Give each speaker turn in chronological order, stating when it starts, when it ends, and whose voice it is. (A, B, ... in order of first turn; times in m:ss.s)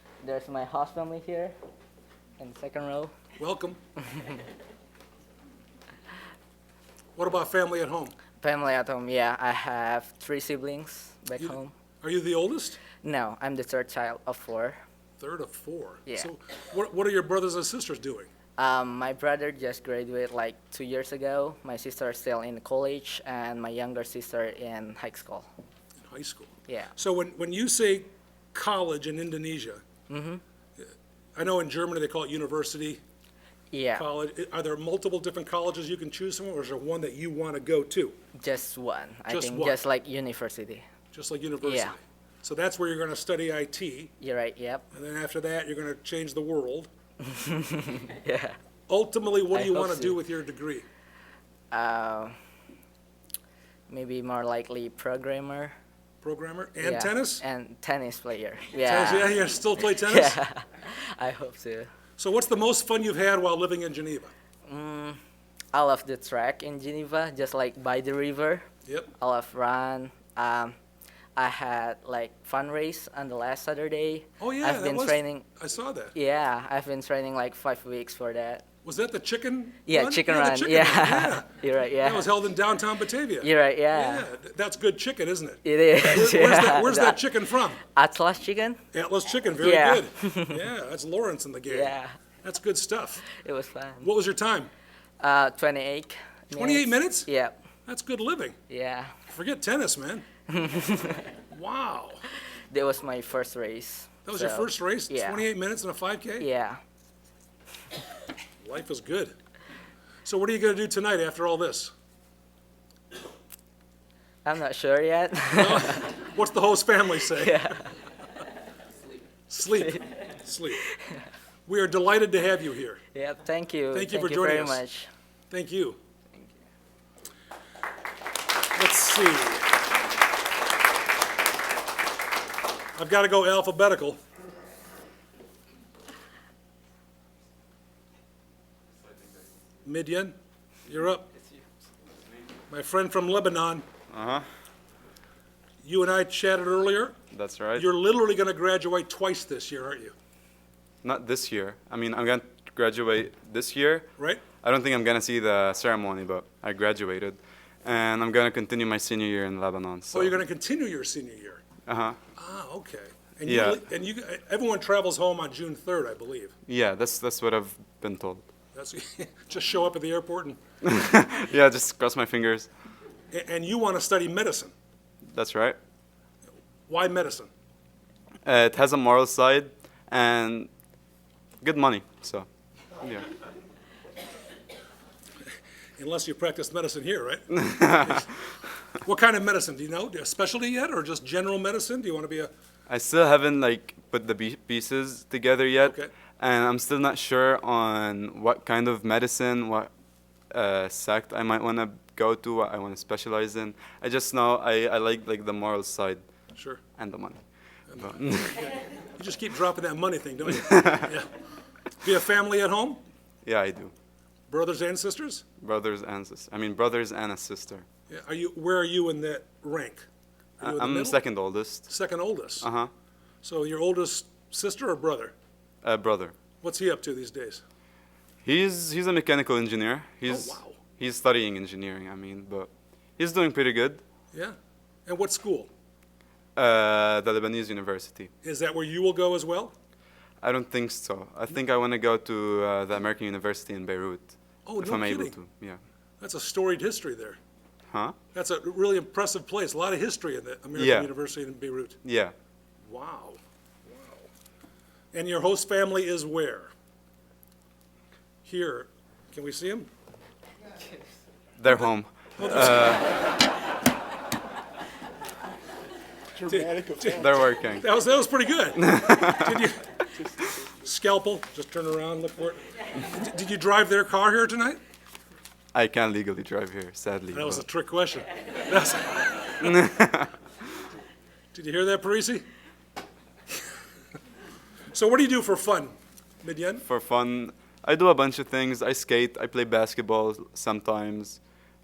0:00.2-0:01.6 A
0:02.4-0:03.1 A
0:03.4-0:03.8 B
0:04.1-0:04.4 A
0:07.2-0:08.2 B
0:08.4-0:11.7 A
0:11.4-0:12.8 B
0:13.0-0:14.8 A
0:15.2-0:18.3 B
0:18.6-0:25.5 A
0:26.0-0:29.8 B
0:26.7-0:26.9 A
0:30.1-0:30.4 A
0:31.4-0:33.0 B
0:33.7-0:34.1 A
0:34.0-0:38.2 B
0:38.4-0:40.8 A
0:39.3-0:39.8 B
0:41.1-0:44.1 B
0:41.6-0:41.9 A
0:44.2-0:44.8 A
0:44.9-0:46.9 B
0:47.2-0:48.6 A
0:48.9-0:50.9 B
0:49.5-0:50.2 A
0:51.7-0:52.4 A
0:53.9-0:55.8 A
0:56.2-0:57.4 B
0:56.8-1:01.9 A
0:58.8-1:00.4 B
1:02.2-1:04.3 B
1:04.7-1:05.2 A
1:05.7-1:08.7 A
1:08.9-1:09.1 B
1:09.2-1:10.8 A
1:11.4-1:15.5 A
1:14.4-1:16.1 B
1:16.2-1:18.6 A
1:18.8-1:27.8 B
1:19.9-1:22.3 A
1:23.4-1:24.3 A
1:25.6-1:27.2 A
1:27.9-1:28.8 A
1:28.9-1:33.3 B
1:29.6-1:30.6 A
1:31.7-1:32.1 A
1:33.3-1:34.1 A
1:34.0-1:34.7 B
1:35.2-1:37.6 A
1:36.5-1:37.3 B
1:37.9-1:38.6 B
1:38.7-1:39.1 A
1:39.3-1:40.2 B
1:40.5-1:41.3 A
1:41.5-1:42.2 B
1:42.3-1:45.4 A
1:44.3-1:46.5 B
1:46.4-1:46.8 A
1:48.6-1:49.3 B
1:50.2-1:51.9 B
1:54.4-1:56.1 A
1:55.5-1:57.7 B
1:57.4-1:57.9 A
1:59.5-2:00.9 B
2:00.9-2:01.2 A
2:01.7-2:03.0 B
2:03.1-2:05.1 A
2:03.9-2:04.8 B
2:05.5-2:06.0 B
2:08.8-2:09.7 B
2:13.0-2:14.2 B
2:19.1-2:19.4 C
2:19.8-2:20.4 B
2:20.9-2:21.3 B
2:22.7-2:23.9 B
2:24.1-2:24.5 C
2:25.8-2:27.2 B
2:27.3-2:27.9 C
2:27.8-2:30.1 B
2:31.0-2:40.4 C
2:34.2-2:34.4 B
2:40.1-2:41.6 B
2:41.9-2:42.2 C
2:42.4-2:46.5 B
2:43.5-2:43.8 C
2:46.7-2:48.4 C
2:48.7-2:50.6 B
2:50.8-2:52.7 C
2:53.3-2:54.7 B
2:55.3-2:55.8 C
2:56.9-2:57.5 B
2:58.4-3:00.7 C
3:01.6-3:02.5 C
3:03.0-3:03.3 C
3:06.0-3:08.3 B
3:07.5-3:08.2 C
3:09.0-3:12.5 B
3:12.9-3:19.9 C
3:15.8-3:16.1 B
3:20.5-3:26.2 C
3:26.5-3:26.8 B
3:27.0-3:27.4 C
3:27.9-3:31.3 B
3:28.0-3:28.6 C
3:30.7-3:31.1 C
3:32.0-3:33.0 B
3:33.4-3:33.9 C
3:34.5-3:35.4 B
3:35.6-3:37.8 C
3:38.1-3:40.1 B
3:40.6-3:41.2 B
3:40.6-3:41.9 C
3:41.9-3:42.7 B
3:42.6-3:42.9 C
3:43.4-3:45.3 B
3:45.8-3:46.4 C
3:46.6-3:47.6 B
3:48.4-3:54.0 C
3:50.3-3:50.8 B
3:54.3-3:55.7 B
3:56.6-3:58.3 C
3:58.4-3:59.7 B
4:00.4-4:05.8 C
4:04.7-4:05.4 B
4:06.2-4:07.4 B
4:07.9-4:08.2 C
4:08.3-4:12.0 B
4:10.8-4:11.1 C
4:12.0-4:12.3 C
4:12.8-4:14.3 B
4:15.1-4:16.7 B
4:18.4-4:19.9 B
4:21.6-4:23.1 C
4:22.4-4:23.0 B
4:26.4-4:29.9 B
4:27.2-4:27.8 C
4:28.8-4:29.5 C
4:30.8-4:34.8 B
4:35.7-4:37.6 C
4:37.3-4:39.7 B
4:39.6-4:40.3 C
4:41.5-4:42.5 B
4:44.9-4:46.8 B
4:46.8-4:51.4 C